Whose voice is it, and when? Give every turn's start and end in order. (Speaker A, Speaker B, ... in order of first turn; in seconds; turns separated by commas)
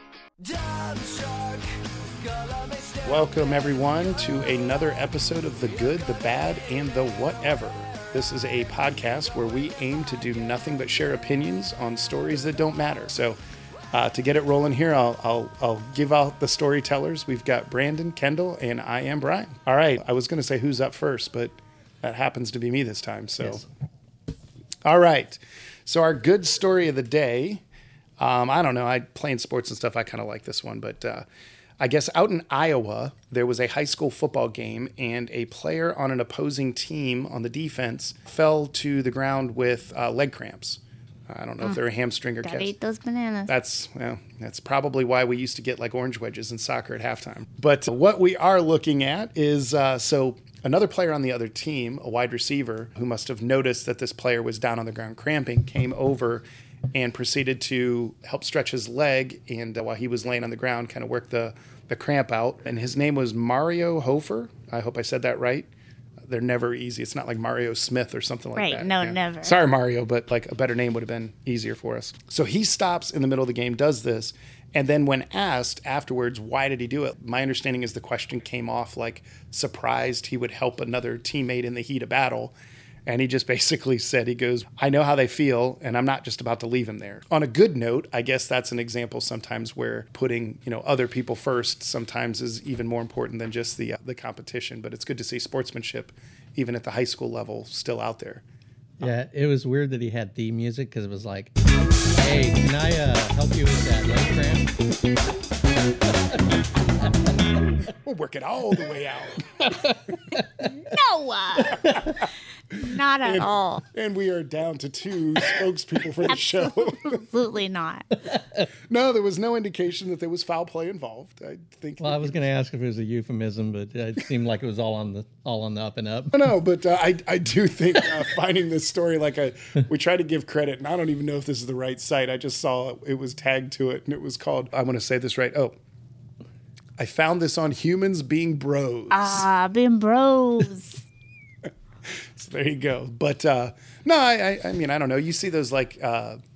Speaker A: 0.4-4.4, Speaker B: 3.0-13.4, Speaker A: 5.7-7.3, Speaker B: 13.9-23.6, Speaker C: 23.4-23.7, Speaker B: 24.8-27.6, Speaker B: 28.2-31.2, Speaker B: 31.8-42.7, Speaker D: 42.4-43.5, Speaker B: 43.5-65.7, Speaker B: 66.3-82.5, Speaker D: 68.5-69.6, Speaker B: 83.0-98.4, Speaker C: 99.0-101.5, Speaker C: 102.1-104.7, Speaker B: 108.0-109.5, Speaker C: 109.6-110.6, Speaker D: 110.6-111.9, Speaker B: 111.7-112.2, Speaker D: 112.7-113.8, Speaker B: 113.2-117.2, Speaker D: 116.2-118.1, Speaker C: 118.3-118.6, Speaker B: 118.9-122.5, Speaker C: 122.0-126.3, Speaker B: 126.3-135.8, Speaker B: 137.0-139.4, Speaker D: 139.1-141.0, Speaker B: 142.1-146.4